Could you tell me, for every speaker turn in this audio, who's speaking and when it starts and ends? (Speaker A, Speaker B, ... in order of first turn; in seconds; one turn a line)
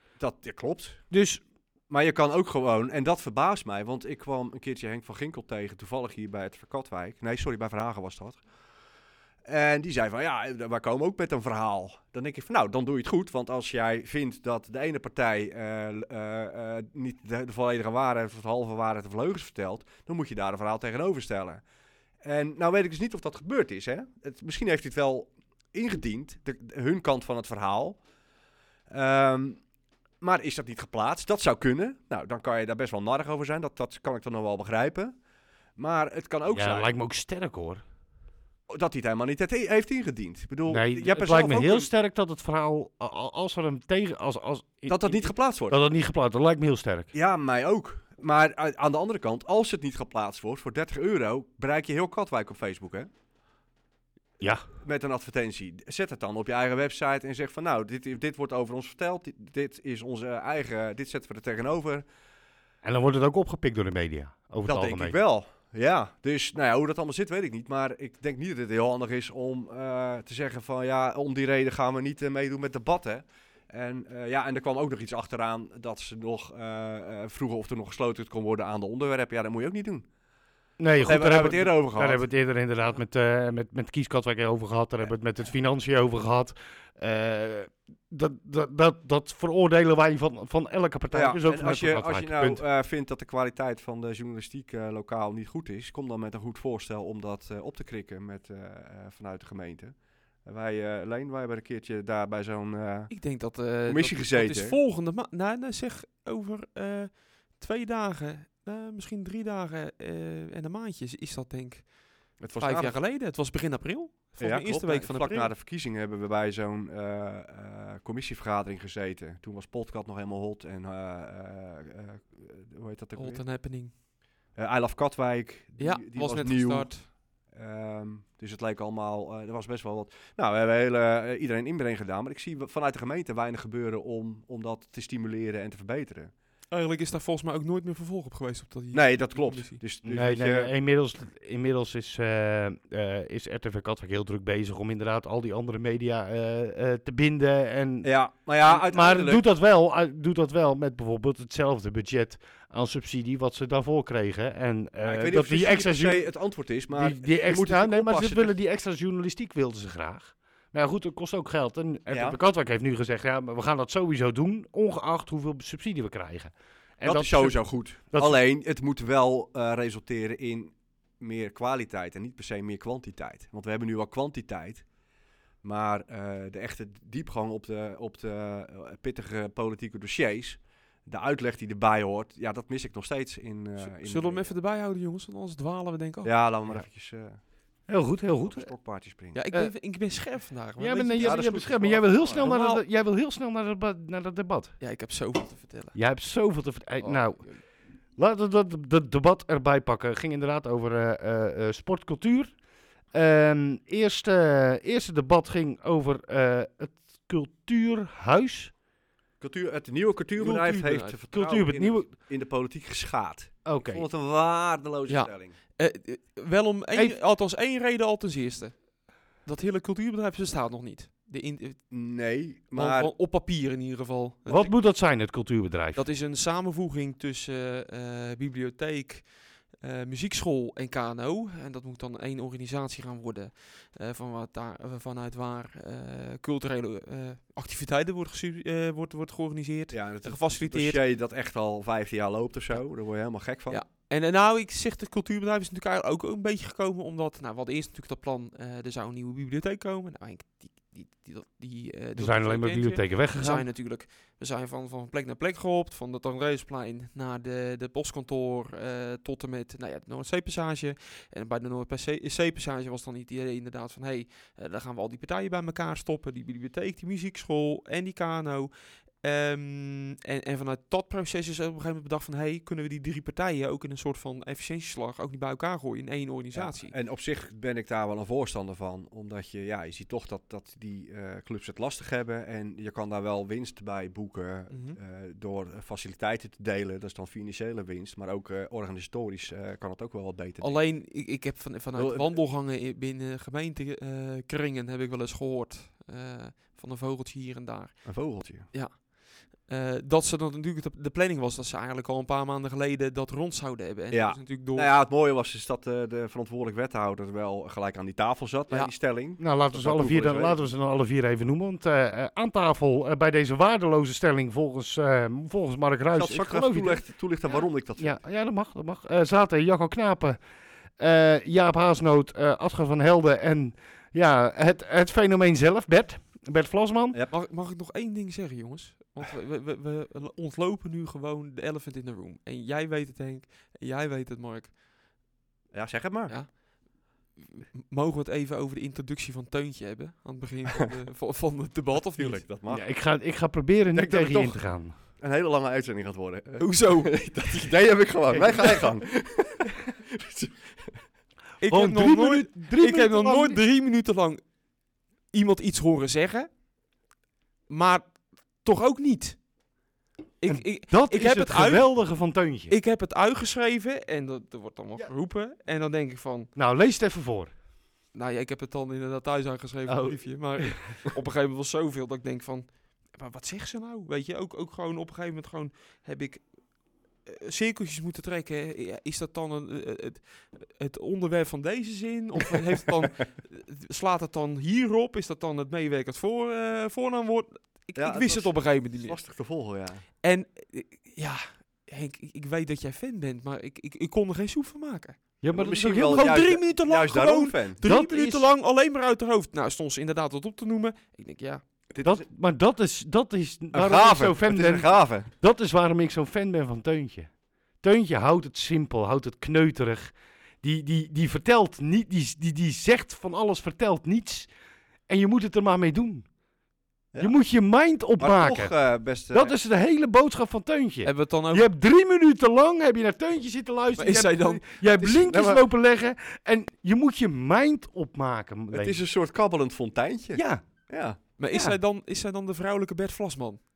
Speaker A: 0.2-1.0
Speaker B: 1.1-1.4
Speaker A: 1.9-8.4
Speaker A: 9.5-21.6
Speaker A: 22.2-28.0
Speaker A: 28.9-29.6
Speaker A: 30.2-35.1
Speaker A: 35.8-36.9
Speaker B: 36.5-37.8
Speaker A: 38.7-41.9
Speaker B: 40.7-47.1
Speaker A: 44.9-45.8
Speaker A: 47.1-53.1
Speaker B: 54.4-54.7
Speaker A: 54.8-62.0
Speaker B: 62.8-65.2
Speaker A: 64.7-80.1
Speaker B: 80.8-92.6
Speaker A: 81.0-82.2
Speaker A: 91.1-104.8
Speaker C: 103.1-115.5
Speaker A: 112.4-113.0
Speaker A: 114.4-123.4
Speaker C: 123.2-123.9
Speaker A: 124.6-127.0
Speaker C: 125.8-127.0
Speaker A: 127.5-136.3
Speaker C: 136.7-139.8
Speaker A: 138.9-140.7
Speaker B: 140.1-148.1
Speaker A: 148.0-149.5
Speaker B: 148.6-156.3
Speaker A: 155.0-158.5
Speaker B: 156.9-167.6
Speaker A: 162.1-162.4
Speaker A: 167.0-174.8
Speaker B: 168.1-168.4
Speaker A: 175.6-184.5
Speaker C: 183.8-186.3
Speaker A: 186.2-187.4
Speaker B: 187.9-188.7
Speaker A: 188.4-189.4
Speaker C: 189.3-191.7
Speaker B: 190.8-194.7
Speaker A: 191.2-192.5
Speaker C: 192.4-192.8
Speaker C: 194.8-196.0
Speaker B: 195.9-197.5
Speaker C: 197.0-197.6
Speaker B: 198.2-202.5
Speaker B: 203.1-208.7
Speaker A: 209.4-215.5
Speaker C: 210.4-211.2
Speaker B: 211.3-212.1
Speaker B: 213.7-214.1
Speaker C: 215.1-218.9
Speaker C: 219.4-221.8
Speaker A: 221.9-223.1
Speaker C: 222.8-224.7
Speaker B: 224.5-226.0
Speaker C: 225.9-241.0
Speaker A: 239.9-243.8
Speaker C: 243.7-276.9
Speaker B: 252.2-253.7
Speaker A: 276.6-290.8
Speaker C: 284.7-285.0
Speaker C: 290.6-304.9
Speaker A: 292.0-292.4
Speaker A: 298.1-298.7
Speaker A: 304.1-310.6
Speaker B: 309.4-317.0
Speaker A: 316.1-318.2
Speaker B: 318.0-320.4
Speaker B: 321.0-327.2
Speaker C: 327.3-334.7
Speaker A: 335.7-336.4
Speaker C: 336.3-336.6
Speaker C: 337.4-342.4
Speaker A: 342.2-342.9
Speaker B: 342.7-344.9
Speaker A: 343.9-344.6
Speaker A: 345.2-350.6
Speaker C: 346.6-347.3
Speaker C: 351.6-354.4
Speaker B: 351.7-353.6
Speaker C: 355.3-356.5
Speaker C: 357.7-359.4
Speaker C: 360.4-361.9
Speaker B: 360.5-362.7
Speaker C: 362.7-366.5
Speaker B: 366.6-367.5
Speaker C: 368.1-376.4
Speaker B: 369.9-370.8
Speaker C: 377.2-389.2
Speaker A: 388.0-390.0
Speaker C: 390.2-395.2
Speaker B: 395.4-396.5
Speaker A: 395.5-397.8
Speaker C: 396.0-401.6
Speaker B: 397.8-398.5
Speaker A: 401.9-402.2
Speaker B: 402.0-407.3
Speaker A: 403.7-405.3
Speaker B: 407.8-414.5
Speaker B: 415.1-416.3
Speaker A: 417.1-417.4
Speaker B: 417.2-418.7
Speaker A: 418.2-419.6
Speaker B: 419.3-429.0
Speaker C: 421.0-421.7
Speaker C: 424.0-424.8
Speaker A: 425.0-425.6
Speaker A: 428.7-431.2
Speaker B: 430.3-430.6
Speaker C: 431.4-433.6